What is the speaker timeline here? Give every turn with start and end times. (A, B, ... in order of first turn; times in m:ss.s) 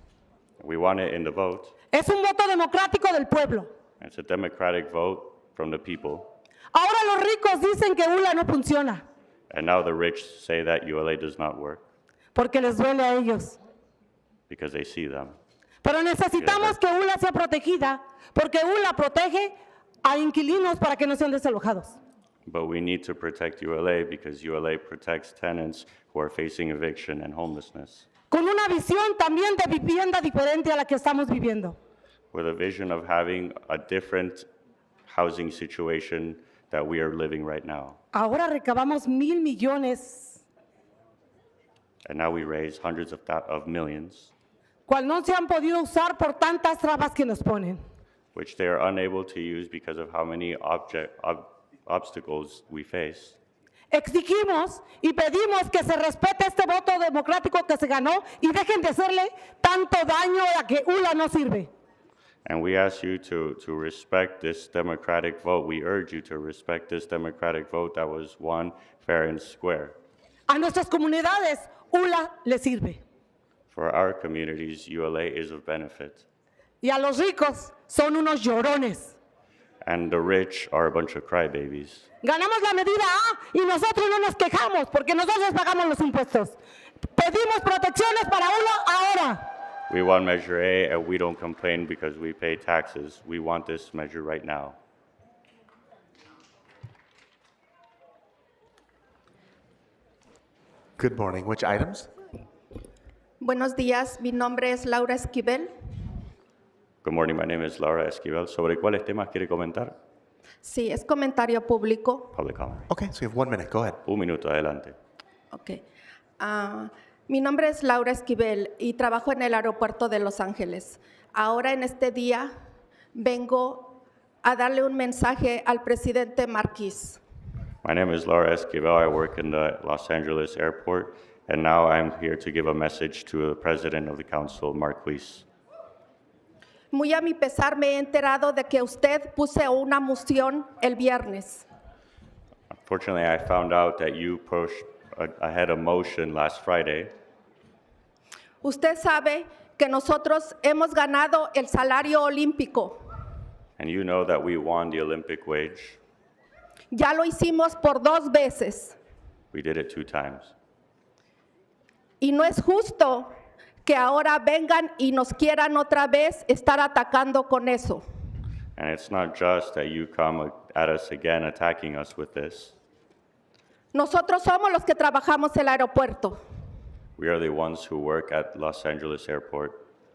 0:00.6-0:01.7 A
0:01.9-0:03.7 B
0:04.0-0:06.3 A
0:06.7-0:09.0 B
0:09.5-0:11.8 A
0:12.3-0:13.6 B
0:14.5-0:15.4 A
0:15.8-0:22.0 B
0:16.4-0:16.8 A
0:22.5-0:28.1 A
0:28.3-0:31.8 B
0:32.3-0:34.5 A
0:35.1-0:38.0 A
0:38.1-0:40.4 B
0:42.0-0:44.3 A
0:44.9-0:47.8 B
0:48.3-0:53.4 A
0:53.9-1:01.7 B
1:02.4-1:10.0 A
1:10.5-1:13.0 B
1:13.7-1:16.3 A
1:16.8-1:19.1 B
1:19.8-1:22.1 A
1:22.2-1:29.4 B
1:29.9-1:34.8 A
1:41.0-1:42.1 C
1:43.4-1:45.7 D
1:47.0-1:49.9 A
1:50.6-1:52.3 D
1:52.3-1:52.9 A
1:52.9-1:54.0 C
1:54.0-1:55.0 A
1:55.5-1:55.8 D
1:56.4-2:02.5 D
2:03.1-2:07.2 D
2:07.8-2:15.5 A
2:16.9-2:21.6 D
2:22.8-2:27.1 A
2:28.6-2:33.0 D
2:33.8-2:36.0 A
2:36.9-2:39.0 D
2:39.5-2:40.5 A
2:42.2-2:43.3 D
2:43.8-2:48.0 D
2:48.8-2:52.8 A
2:53.9-2:56.4 D
2:57.2-2:59.8 A